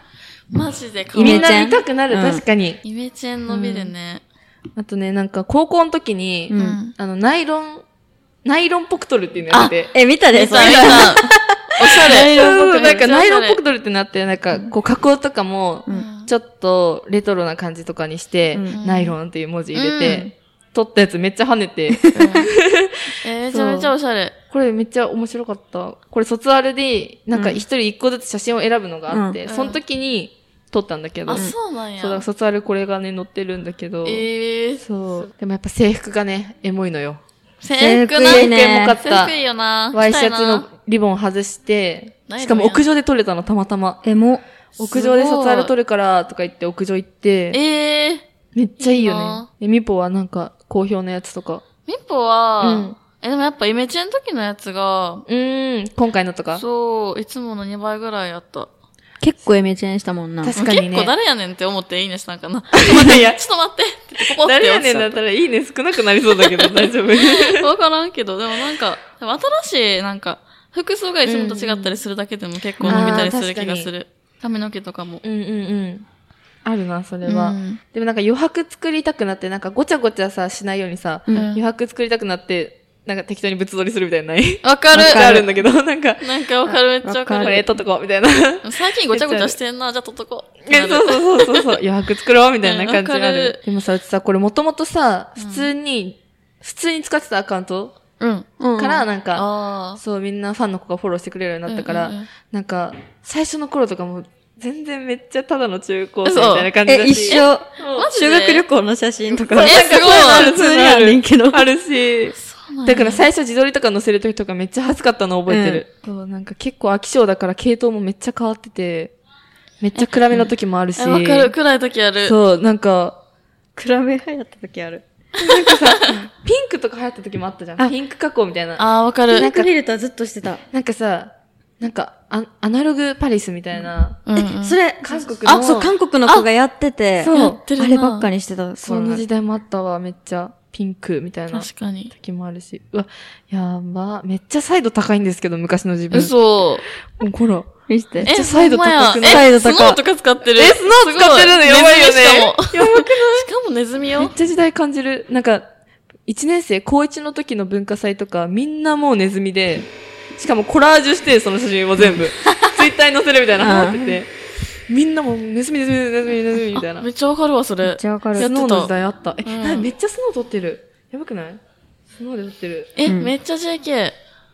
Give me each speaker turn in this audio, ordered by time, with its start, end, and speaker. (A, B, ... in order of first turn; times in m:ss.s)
0:00.5-0:01.5 A
0:01.1-0:02.8 B
0:01.2-0:02.4 C
0:02.8-0:04.2 A
0:03.5-0:03.9 B
0:04.8-0:07.8 B
0:06.5-0:06.8 C
0:06.6-0:06.9 A
0:08.4-0:09.9 B
0:09.5-0:09.8 A
0:09.9-0:12.7 C
0:10.3-0:13.6 A
0:10.6-0:11.1 B
0:12.3-0:23.9 B
0:15.9-0:16.3 A
0:18.7-0:19.2 A
0:19.7-0:20.2 A
0:21.9-0:22.4 C
0:22.2-0:22.5 A
0:23.2-0:24.4 A
0:24.5-0:34.2 B
0:29.1-0:29.4 C
0:29.5-0:29.8 A
0:31.3-0:32.2 A
0:34.0-0:34.8 A
0:34.8-0:37.2 B
0:37.6-0:40.6 A
0:37.7-0:39.0 C
0:38.2-0:39.3 B
0:39.9-0:44.0 B
0:42.3-0:42.8 A
0:44.0-0:44.4 C
0:44.8-0:45.7 A
0:44.8-0:47.6 B
0:47.5-0:48.2 A
0:48.5-0:51.6 B
0:48.8-0:49.5 A
0:51.8-0:55.2 A
0:52.6-0:53.0 B
0:55.3-0:56.6 B
0:56.5-0:58.7 A
0:59.2-1:00.6 C
1:00.4-1:01.1 B
1:00.5-1:05.2 A
1:02.7-1:03.4 B
1:04.2-1:07.7 B
1:06.4-1:15.2 A
1:11.2-1:12.0 B
1:12.8-1:13.3 C
1:12.9-1:13.9 B
1:15.2-1:16.0 B
1:16.6-1:26.3 B
1:17.2-1:17.8 A
1:21.3-1:21.6 A
1:24.6-1:25.2 A
1:24.9-1:25.6 C
1:26.2-1:27.6 A
1:26.6-1:27.8 C
1:27.4-1:29.6 B
1:28.6-1:31.8 A
1:30.6-1:38.0 B
1:32.6-1:33.6 A
1:35.4-1:35.7 A
1:38.2-1:38.5 A
1:38.6-1:39.0 C
1:38.8-1:39.4 B
1:39.3-1:40.0 A
1:40.0-1:48.1 B
1:41.7-1:42.3 A
1:46.2-1:46.7 A
1:46.8-1:51.7 C
1:47.3-1:48.6 A
1:49.5-1:59.1 B
1:49.7-1:50.4 A
1:52.3-1:53.3 A
1:55.5-1:55.8 C
1:59.8-2:01.5 B
1:59.9-2:02.4 A
2:02.2-2:03.2 B
2:03.8-2:05.0 C
2:05.4-2:08.8 B
2:05.8-2:06.2 A
2:08.8-2:09.5 A
2:09.3-2:10.6 C
2:09.4-2:09.7 B
2:10.7-2:14.2 B
2:14.2-2:14.8 A
2:14.3-2:19.2 C
2:15.0-2:15.9 B
2:17.2-2:17.6 B
2:17.3-2:18.3 A
2:18.8-2:26.3 B
2:21.5-2:22.1 A
2:26.1-2:26.9 A
2:27.1-2:29.5 B
2:27.9-2:28.3 C
2:28.2-2:34.3 A
2:29.2-2:30.0 C
2:30.5-2:33.5 B
2:34.2-2:35.6 B
2:36.3-2:44.3 B
2:42.4-2:42.6 C
2:43.6-2:44.2 C
2:44.9-2:47.1 B
2:46.7-2:48.9 A
2:47.8-2:48.5 C
2:48.4-2:51.6 B
2:49.4-2:49.9 A
2:52.1-2:53.0 B
2:53.0-2:54.2 A
2:53.0-2:53.3 C